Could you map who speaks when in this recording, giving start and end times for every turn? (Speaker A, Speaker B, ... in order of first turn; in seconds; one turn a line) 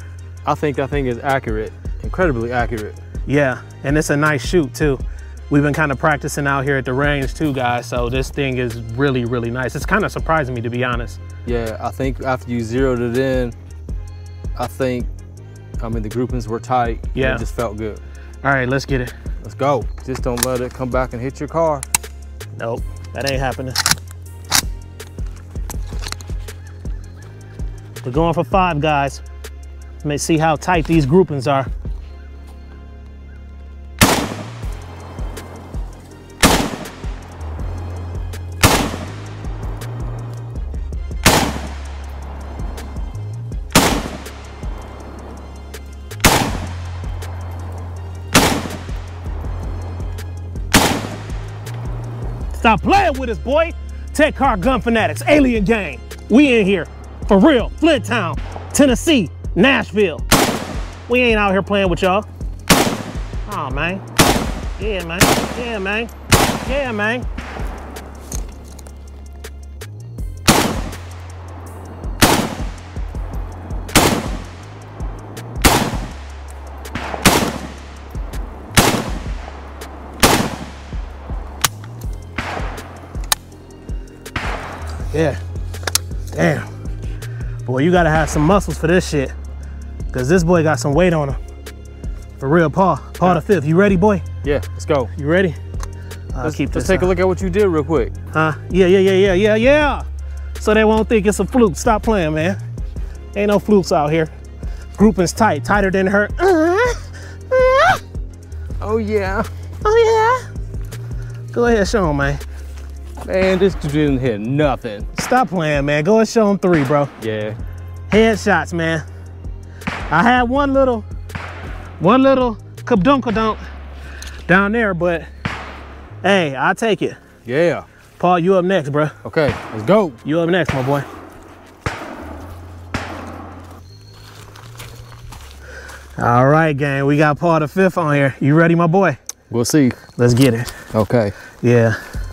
Speaker A: 0.4-3.0
Speaker B: 3.3-11.2
Speaker A: 11.4-13.5
Speaker A: 14.6-15.1
Speaker A: 15.8-18.0
Speaker B: 17.1-17.4
Speaker B: 18.4-19.1
Speaker A: 19.4-21.9
Speaker B: 22.6-23.8
Speaker B: 28.0-29.2
Speaker B: 30.0-31.7
Speaker B: 52.5-60.2
Speaker B: 61.1-62.3
Speaker B: 63.5-64.0
Speaker B: 64.8-66.1
Speaker B: 66.6-67.2
Speaker B: 85.1-85.4
Speaker B: 86.3-86.7
Speaker B: 87.7-89.3
Speaker B: 90.1-91.4
Speaker B: 92.4-94.2
Speaker A: 94.4-95.1
Speaker B: 95.1-95.6
Speaker B: 96.3-97.1
Speaker A: 96.4-98.1
Speaker B: 98.3-100.0
Speaker B: 100.6-102.6
Speaker B: 103.3-104.3
Speaker B: 105.0-108.0
Speaker A: 108.8-109.5
Speaker B: 109.8-110.5
Speaker B: 111.5-112.4
Speaker A: 113.2-115.1
Speaker B: 115.1-117.1
Speaker A: 117.2-117.6
Speaker B: 118.1-119.0
Speaker B: 120.1-121.0
Speaker B: 122.0-123.6
Speaker B: 124.5-125.3
Speaker B: 126.2-127.2
Speaker A: 127.5-127.8
Speaker B: 128.2-129.2
Speaker A: 129.2-130.2
Speaker B: 130.2-131.1
Speaker B: 136.2-139.2
Speaker A: 139.5-140.0
Speaker B: 140.2-140.8
Speaker A: 140.9-141.3
Speaker B: 141.6-142.0